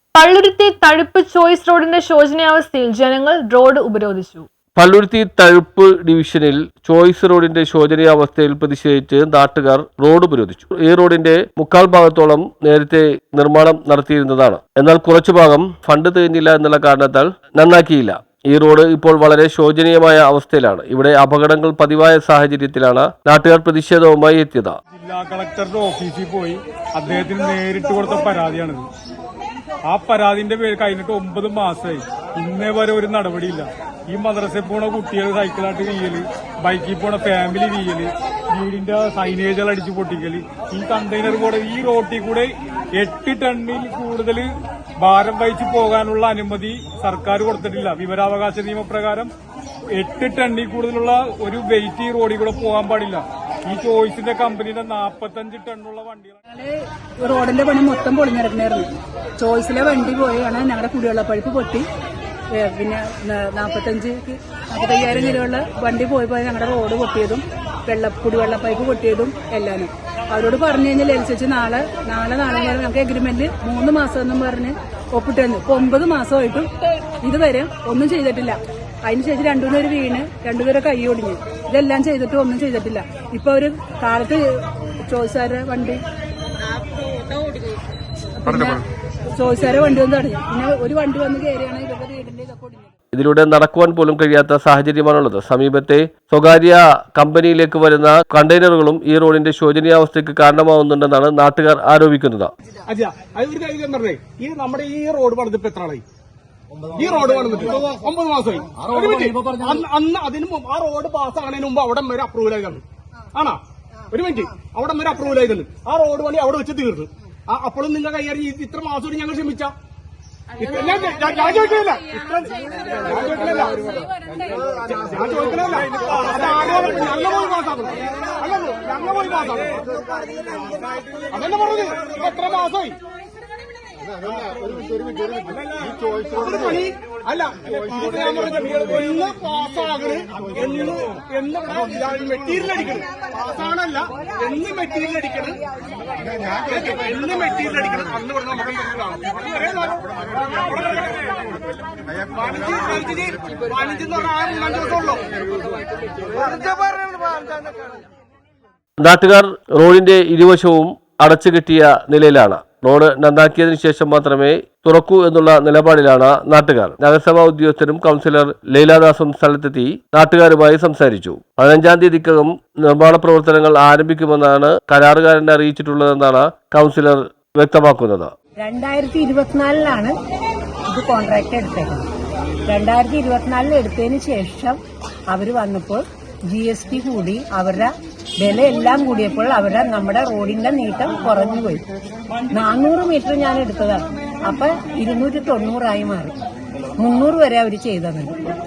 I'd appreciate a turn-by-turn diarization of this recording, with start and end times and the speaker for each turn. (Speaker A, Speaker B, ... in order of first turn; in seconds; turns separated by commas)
Speaker A: 0.1-4.5, Speaker B: 4.8-24.8, Speaker C: 24.9-28.8, Speaker C: 29.9-44.5, Speaker C: 45.0-49.3, Speaker C: 49.9-56.4, Speaker D: 56.5-61.9, Speaker D: 62.5-76.7, Speaker D: 77.2-84.4, Speaker D: 85.1-86.0, Speaker D: 88.4-88.8, Speaker D: 89.4-92.9, Speaker B: 93.1-102.5, Speaker E: 102.9-106.0, Speaker E: 106.9-119.7, Speaker E: 120.5-124.2, Speaker E: 124.8-129.8, Speaker E: 131.3-133.0, Speaker E: 135.3-145.6, Speaker E: 146.5-151.4, Speaker E: 152.3-155.4, Speaker E: 156.4-156.7, Speaker B: 159.0-178.3, Speaker F: 178.6-180.1, Speaker F: 180.9-182.1, Speaker F: 182.7-184.8, Speaker F: 185.3-191.8, Speaker F: 192.5-196.3, Speaker F: 197.0-198.3